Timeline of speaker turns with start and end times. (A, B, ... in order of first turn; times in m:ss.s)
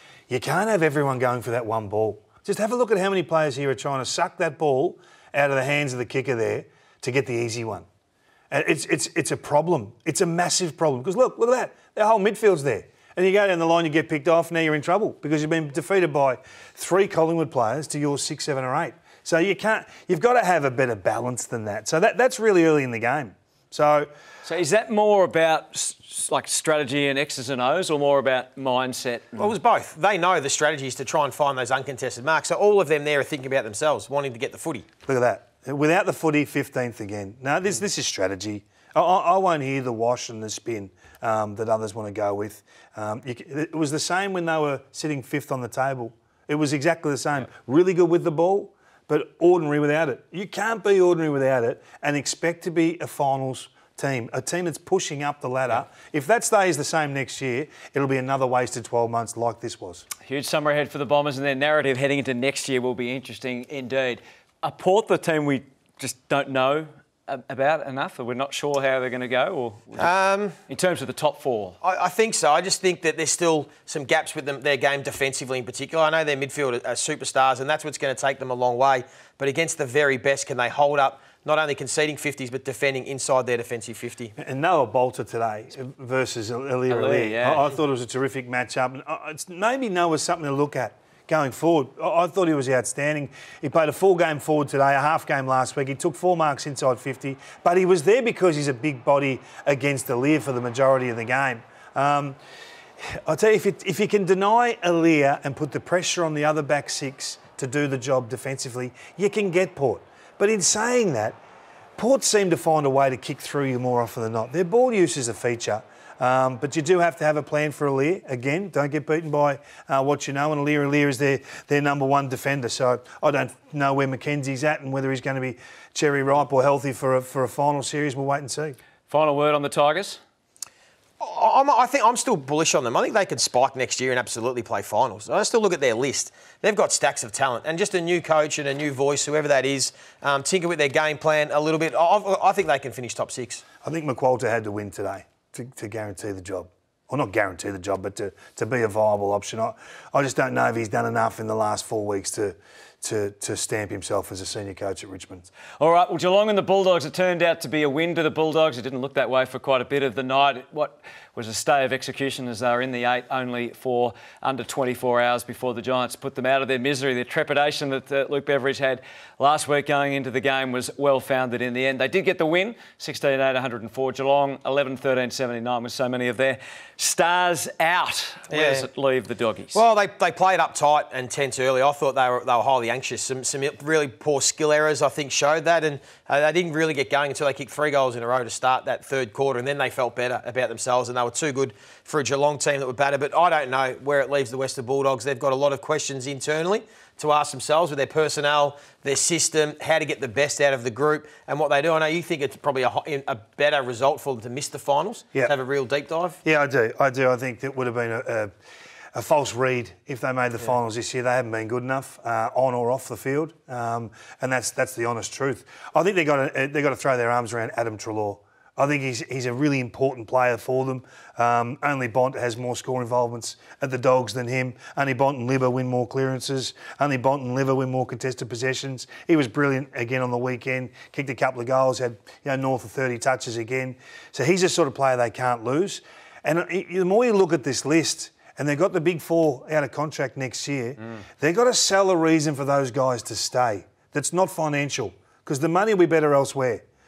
0:00.3-0:07.8 A
0:08.5-0:24.1 A
0:24.4-0:29.6 B
0:29.4-0:34.9 C
0:35.0-1:00.0 A
1:00.2-1:10.1 B
1:10.0-1:10.6 C
1:10.7-1:11.8 B
1:11.8-1:24.3 C
1:24.4-1:42.4 A
1:26.9-1:27.7 B
1:43.1-1:51.4 A
1:52.0-2:08.8 A
2:09.1-2:10.2 B
2:11.2-2:23.6 C
2:23.8-2:35.5 A
2:35.8-2:59.8 B
2:58.5-2:58.9 C
2:59.7-3:26.4 C
3:26.4-3:28.5 A
3:29.1-4:06.8 A